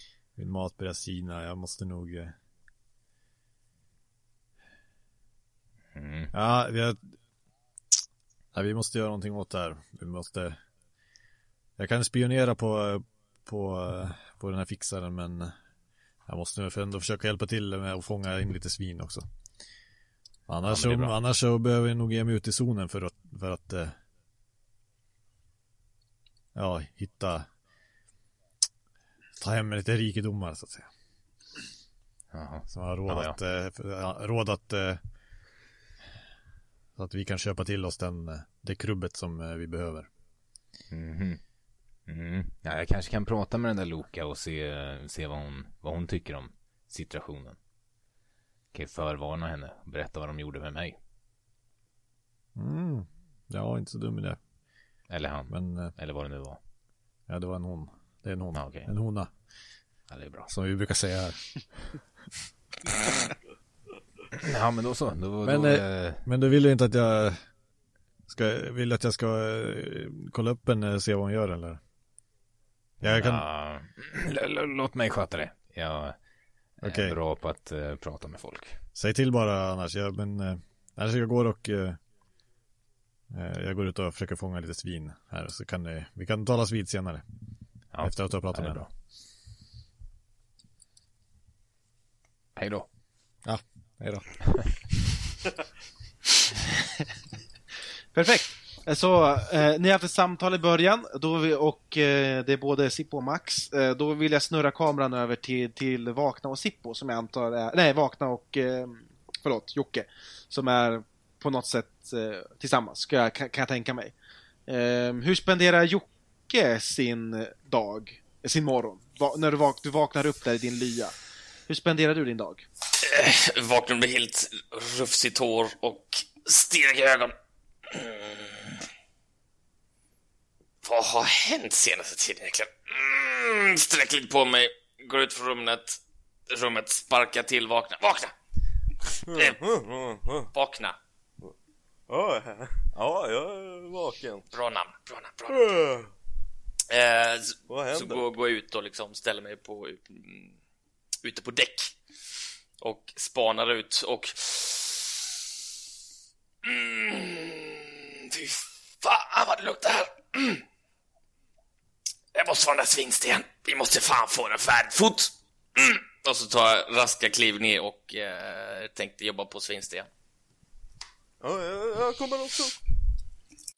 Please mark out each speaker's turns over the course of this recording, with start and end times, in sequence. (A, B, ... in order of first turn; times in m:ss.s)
0:00.4-0:02.4 A
0:06.0-0:06.3 B
0:06.3-0:07.0 A
0:08.5-0:10.6 A
0:11.8-0:15.6 A
0:16.3-0:19.3 A
0:20.5-0:24.0 A
0:20.7-0:21.2 B
0:26.6-0:27.5 A
0:29.4-0:30.9 A
0:32.3-0:33.4 B
0:32.7-0:35.0 A
0:37.0-0:40.1 A
0:40.9-0:41.4 B
0:42.1-0:47.6 B
0:48.7-0:51.0 B
0:52.6-0:54.4 A
0:55.1-0:56.6 B
0:55.5-0:55.9 A
0:57.3-0:59.3 A
0:58.6-0:58.9 B
1:00.1-1:00.5 B
1:00.5-1:01.6 A
1:04.4-1:06.2 B
1:05.4-1:07.4 A
1:08.3-1:11.8 A
1:13.0-1:13.5 A
1:13.0-1:16.2 B
1:16.8-1:18.8 B
1:16.8-1:17.2 A
1:19.0-1:22.0 A
1:23.3-1:27.2 A
1:27.9-1:28.9 B
1:28.0-1:28.8 A
1:32.6-1:32.9 B
1:33.4-1:34.4 A
1:38.1-1:54.1 C
1:54.7-2:01.1 C
2:01.7-2:02.7 C
2:03.0-2:07.4 D
2:07.9-2:08.8 D
2:10.8-2:18.3 D
2:19.3-2:20.5 E
2:19.3-2:19.6 D
2:20.5-2:21.0 D
2:22.1-2:24.5 E
2:24.5-2:25.6 D
2:25.5-2:26.1 E
2:26.9-2:30.5 D
2:27.7-2:28.2 E
2:31.2-2:32.0 D
2:32.8-2:35.3 D
2:36.6-2:40.6 D
2:42.3-2:50.1 D
2:51.4-2:52.8 E